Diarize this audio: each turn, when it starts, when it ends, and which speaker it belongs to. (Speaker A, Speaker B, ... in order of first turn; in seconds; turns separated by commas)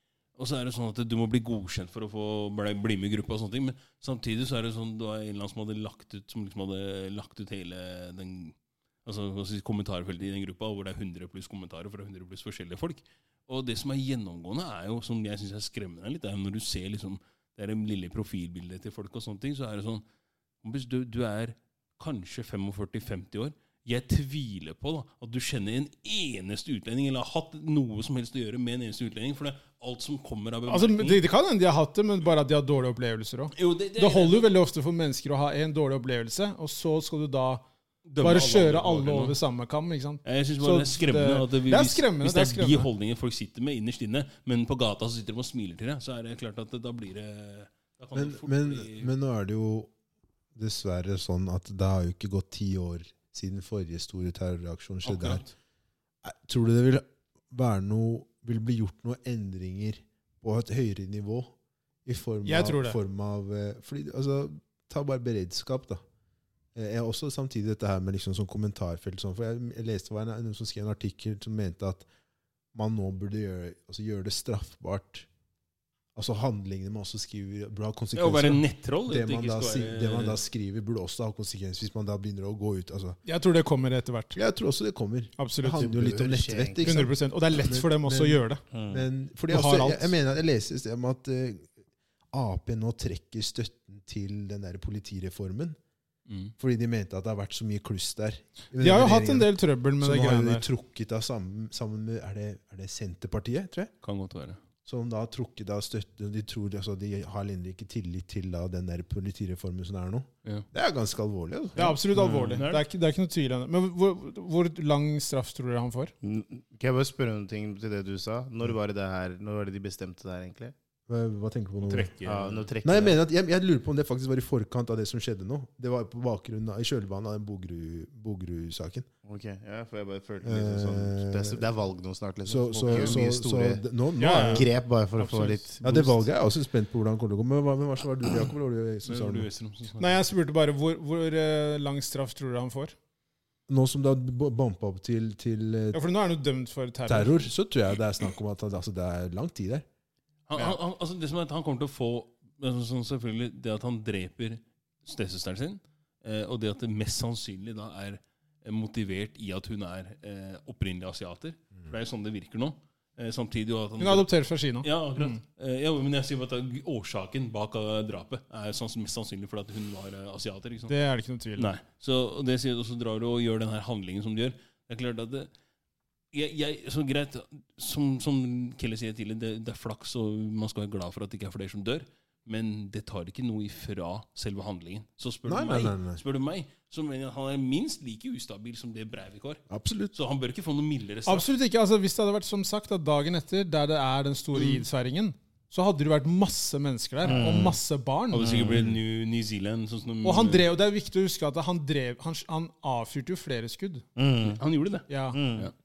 Speaker A: 0.4-20.0, Speaker A: 20.6-31.2, Speaker B: 30.7-37.6, Speaker A: 33.5-34.5, Speaker A: 38.0-39.4, Speaker B: 38.2-42.9, Speaker A: 40.2-49.1, Speaker C: 48.1-49.9, Speaker C: 50.5-55.4, Speaker A: 55.0-55.5, Speaker C: 56.2-61.5, Speaker C: 62.0-66.0, Speaker B: 62.4-63.0, Speaker C: 66.7-72.0, Speaker C: 72.7-75.3, Speaker C: 76.1-83.2, Speaker A: 78.1-80.4, Speaker B: 83.2-84.4, Speaker C: 84.3-91.7, Speaker B: 85.4-85.9, Speaker D: 85.8-87.0, Speaker B: 86.8-88.6, Speaker D: 88.7-89.0, Speaker B: 89.5-90.1, Speaker C: 92.3-95.8, Speaker A: 96.3-96.5, Speaker C: 96.6-103.9, Speaker B: 98.8-100.7, Speaker A: 104.0-104.6, Speaker C: 104.8-112.0, Speaker B: 111.8-116.1, Speaker A: 111.8-112.8, Speaker D: 116.2-120.7, Speaker C: 121.1-122.1, Speaker A: 121.8-122.6, Speaker D: 122.2-123.2, Speaker C: 122.8-129.1, Speaker D: 129.2-133.8, Speaker C: 130.4-131.6, Speaker C: 132.4-134.7, Speaker B: 134.2-135.6, Speaker D: 134.4-136.2, Speaker C: 135.8-139.5, Speaker A: 139.0-140.2, Speaker B: 140.0-142.9, Speaker C: 143.7-146.0, Speaker B: 145.9-147.5, Speaker C: 147.1-149.8, Speaker A: 150.5-164.3, Speaker B: 164.0-165.4, Speaker A: 164.8-170.9, Speaker B: 170.9-171.7, Speaker A: 171.6-175.5, Speaker A: 176.3-189.6, Speaker C: 185.4-186.2, Speaker C: 189.7-190.1, Speaker A: 190.1-191.4, Speaker B: 191.2-198.7, Speaker D: 197.2-197.8, Speaker A: 198.3-200.7, Speaker C: 198.7-199.0, Speaker B: 200.2-204.0, Speaker D: 204.2-204.6, Speaker A: 204.4-205.7, Speaker B: 205.1-205.4, Speaker D: 205.3-205.7